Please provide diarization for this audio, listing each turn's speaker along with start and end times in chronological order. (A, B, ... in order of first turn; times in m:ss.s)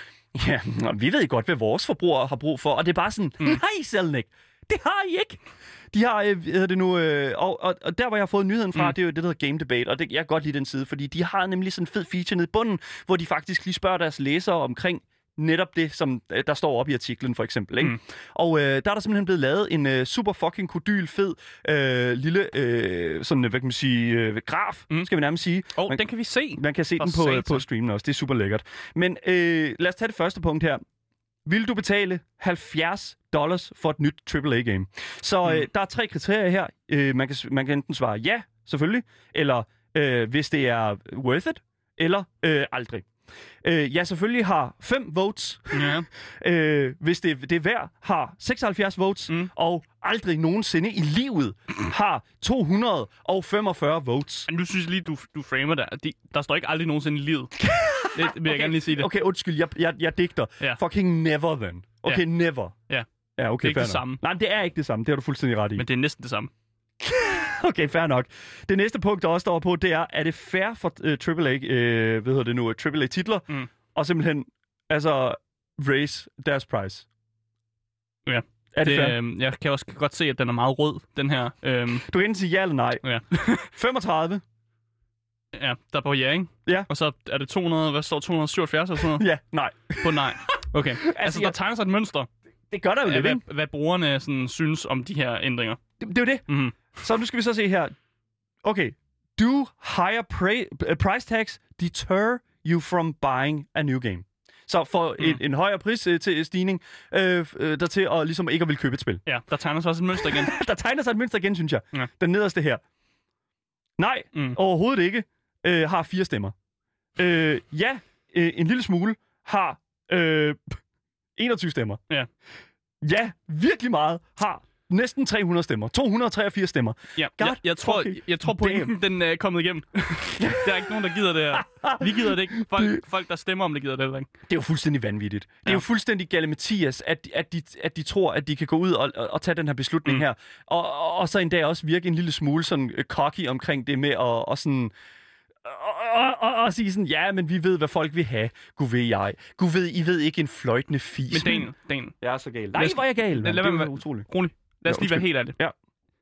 0:00.3-0:26.0 A
0:25.7-0:27.6 B
0:26.5-0:30.8 A
0:31.4-0:43.1 A
0:43.6-0:54.5 A
0:45.7-0:46.1 B
0:54.5-0:57.5 B
0:57.6-1:02.7 A
0:58.1-0:59.1 B
1:03.4-1:05.8 A
1:03.6-1:04.2 B
1:05.8-1:06.5 B
1:07.0-1:17.0 A
1:18.2-1:22.0 B
1:18.7-1:19.2 A
1:22.1-1:23.0 A
1:23.0-1:23.7 B
1:23.7-1:24.4 A
1:25.5-1:29.2 B
1:29.0-1:30.3 A
1:30.0-1:32.3 B
1:31.0-1:31.6 A
1:32.7-1:33.4 A
1:33.0-1:35.8 B
1:36.0-1:37.9 A
1:36.5-1:36.8 B
1:38.6-1:49.2 A
1:49.2-1:50.5 B
1:50.1-1:52.8 A
1:54.0-1:56.5 A
1:57.2-2:00.8 A
2:01.4-2:02.0 A
2:03.0-2:08.9 A
2:07.2-2:14.3 B
2:10.4-2:10.9 A
2:11.5-2:13.0 A
2:14.5-2:24.9 A
2:25.6-2:31.7 A
2:31.3-2:32.1 B
2:32.2-2:34.3 A
2:32.7-2:35.6 B
2:34.9-2:35.7 A